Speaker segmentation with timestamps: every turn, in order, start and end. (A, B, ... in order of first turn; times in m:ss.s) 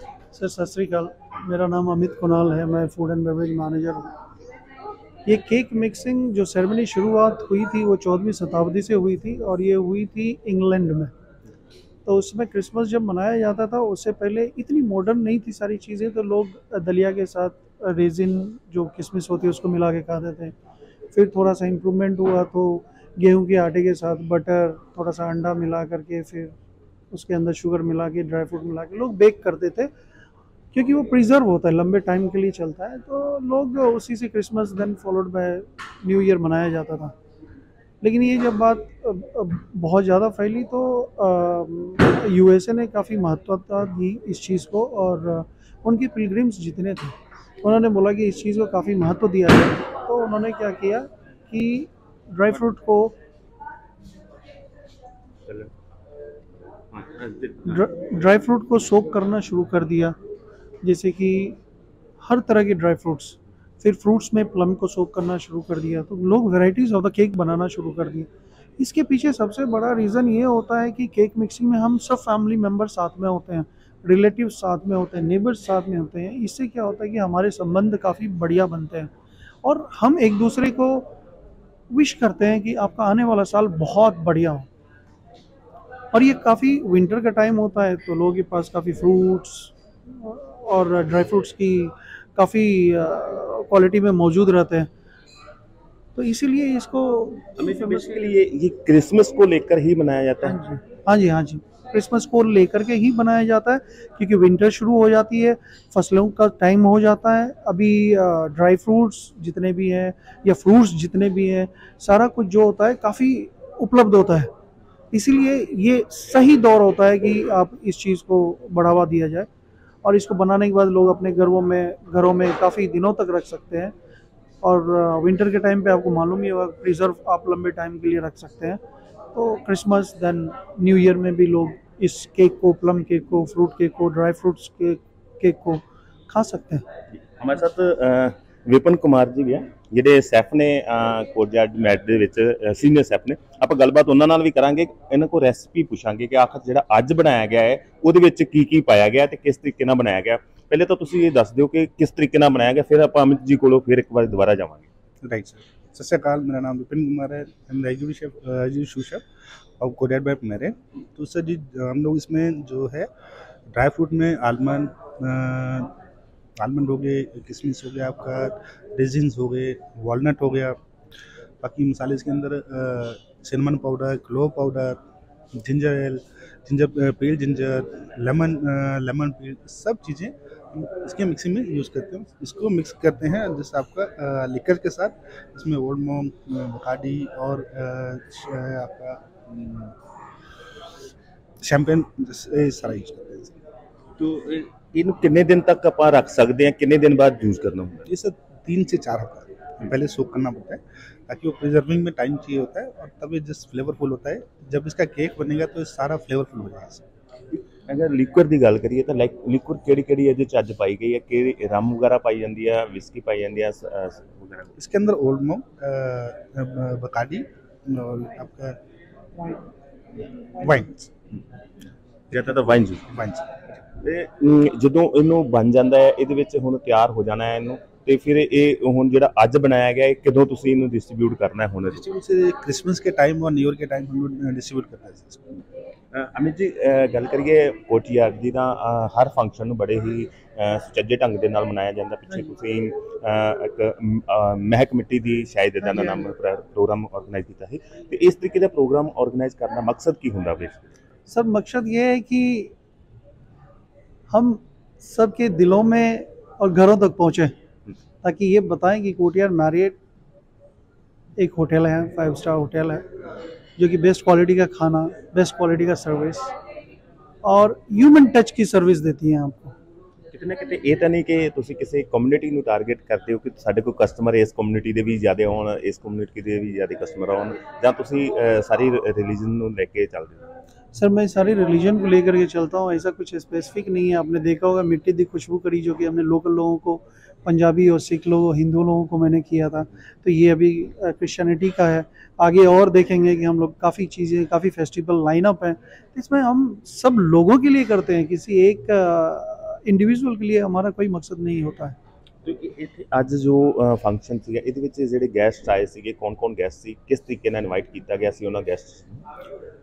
0:00.3-0:04.1 A
0:05.2-0:11.1 A
0:12.0-0:20.5 A
0:21.1-0:26.5 A
0:27.1-0:29.9 A
0:30.7-0:37.1 A
0:38.0-0:53.1 A
0:55.5-0:55.7 B
0:56.9-0:57.8 B
0:57.6-1:00.2 A
1:00.8-1:01.6 A
1:02.2-1:19.1 A
1:19.6-1:21.1 A
1:21.9-1:24.7 A
1:26.1-1:34.9 A
1:36.1-1:38.1 A
1:37.6-1:40.6 B
1:40.4-1:54.5 A
1:55.1-1:59.5 A
2:00.0-2:03.9 A
2:04.6-2:08.8 A
2:09.3-2:16.8 A
2:17.3-2:34.9 B
2:35.2-2:39.2 C
2:39.8-2:43.1 C
2:43.7-2:45.9 C
2:46.6-2:50.8 C
2:51.6-2:55.0 C
2:55.5-3:09.9 C
3:11.6-3:13.6 C
3:14.2-3:18.1 B
3:18.1-3:27.0 C
3:27.5-3:34.8 B
3:34.8-3:38.8 C
3:40.5-3:41.1 C
3:42.3-3:43.1 B
3:43.1-3:43.5 C
3:44.0-3:52.0 B
3:51.9-3:55.6 C
3:56.1-4:11.0 B
4:11.3-4:12.7 A
4:14.3-4:17.5 A
4:18.2-4:20.0 A
4:21.4-4:23.0 A
4:23.8-4:26.5 A
4:27.4-4:29.7 A
4:30.3-4:40.5 B
4:40.9-5:02.0 A
5:02.4-5:09.2 B